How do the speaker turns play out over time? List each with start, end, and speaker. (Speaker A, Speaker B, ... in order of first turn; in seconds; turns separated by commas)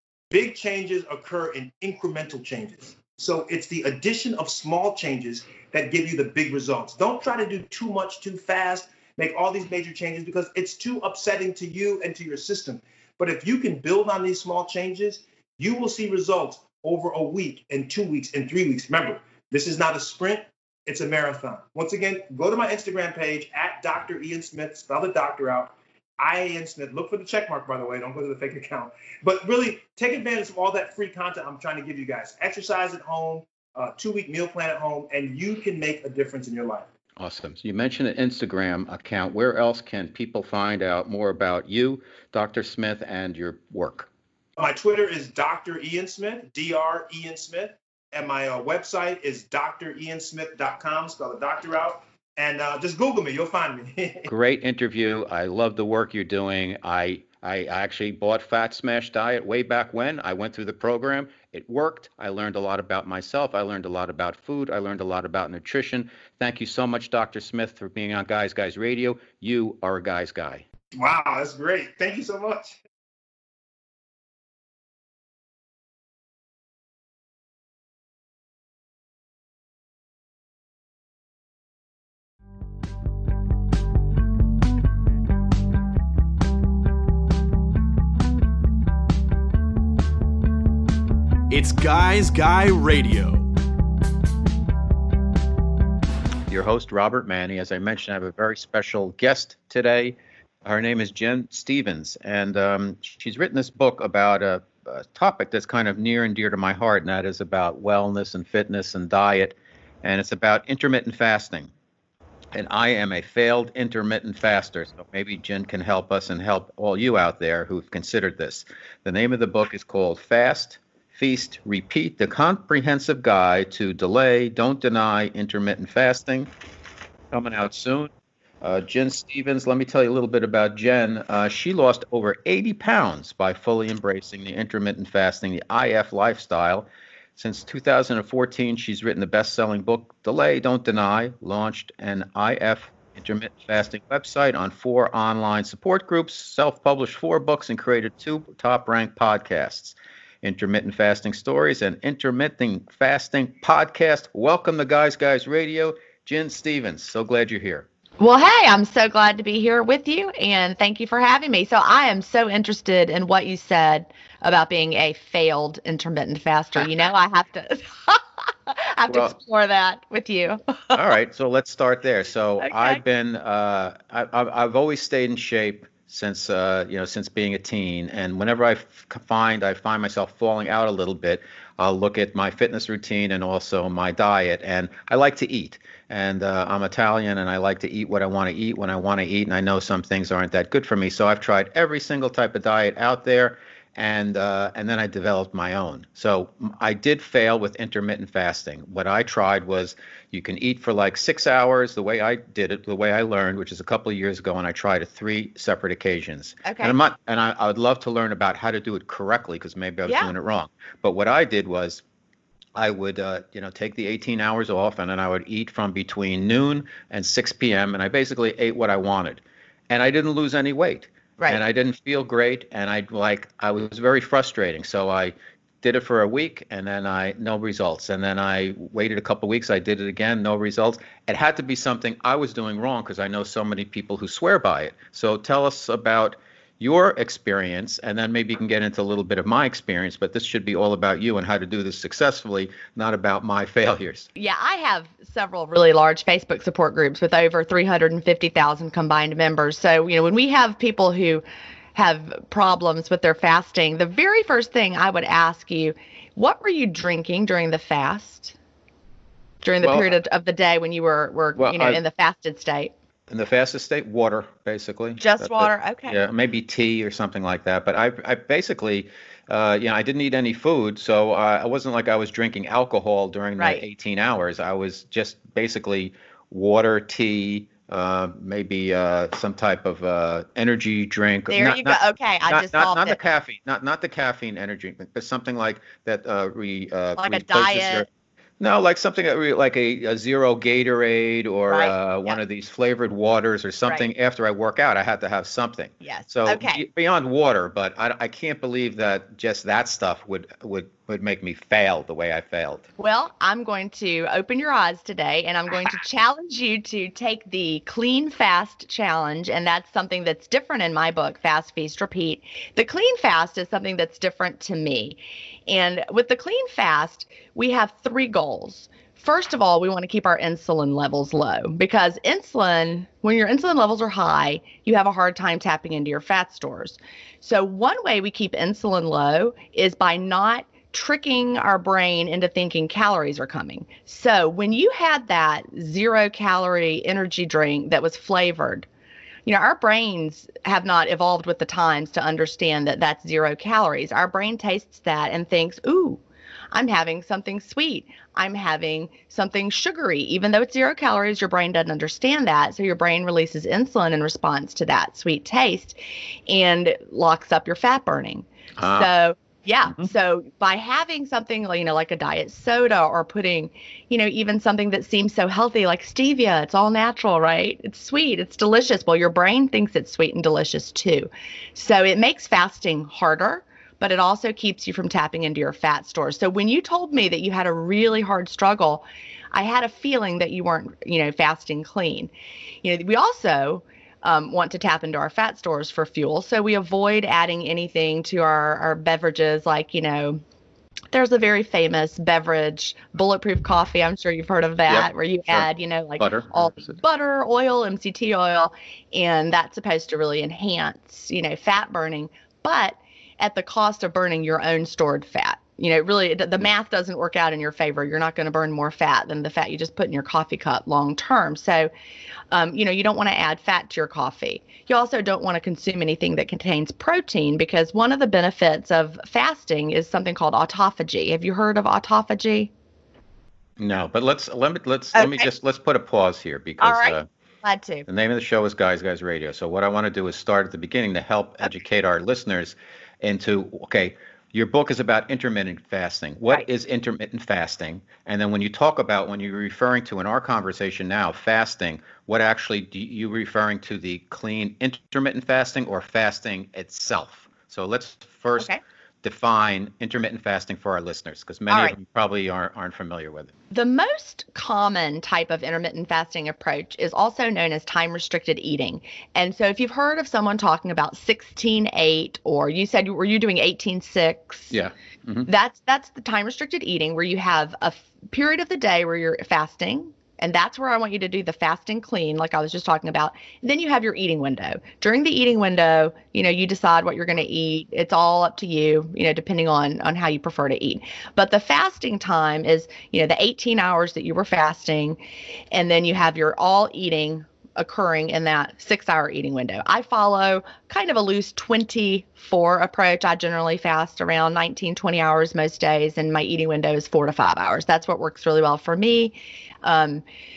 Speaker A: 0.3-36.9, Speaker B: 37.2-44.1, Speaker A: 44.6-54.3, Speaker B: 54.3-70.7, Speaker A: 70.9-72.8, Speaker C: 91.5-93.5, Speaker B: 96.5-111.7, Speaker B: 112.5-126.5, Speaker B: 127.3-157.9, Speaker D: 158.2-171.0, Speaker B: 169.1-169.3, Speaker B: 170.9-212.0, Speaker D: 172.6-173.0, Speaker D: 206.6-207.0, Speaker D: 210.1-210.3, Speaker B: 212.8-244.3, Speaker D: 244.3-251.4, Speaker D: 251.9-258.6, Speaker D: 259.6-262.9, Speaker B: 259.8-260.1, Speaker B: 261.6-262.0, Speaker B: 263.3-288.1, Speaker D: 265.2-266.2, Speaker D: 273.6-273.8, Speaker D: 281.5-283.2, Speaker D: 287.2-288.1, Speaker B: 288.6-302.9, Speaker D: 291.7-292.4, Speaker D: 296.0-296.8, Speaker D: 303.0-338.9, Speaker D: 339.5-346.2, Speaker D: 346.7-382.3, Speaker B: 358.8-359.1, Speaker D: 382.8-390.4, Speaker D: 391.1-411.9, Speaker B: 394.9-395.7, Speaker B: 396.2-396.9, Speaker D: 412.5-422.7, Speaker B: 423.8-427.3, Speaker D: 425.1-425.5, Speaker D: 426.8-428.1, Speaker B: 428.1-448.7, Speaker B: 449.2-453.5, Speaker D: 451.7-451.9, Speaker D: 453.7-464.8, Speaker B: 464.7-465.5, Speaker D: 465.5-485.2, Speaker D: 485.7-500.2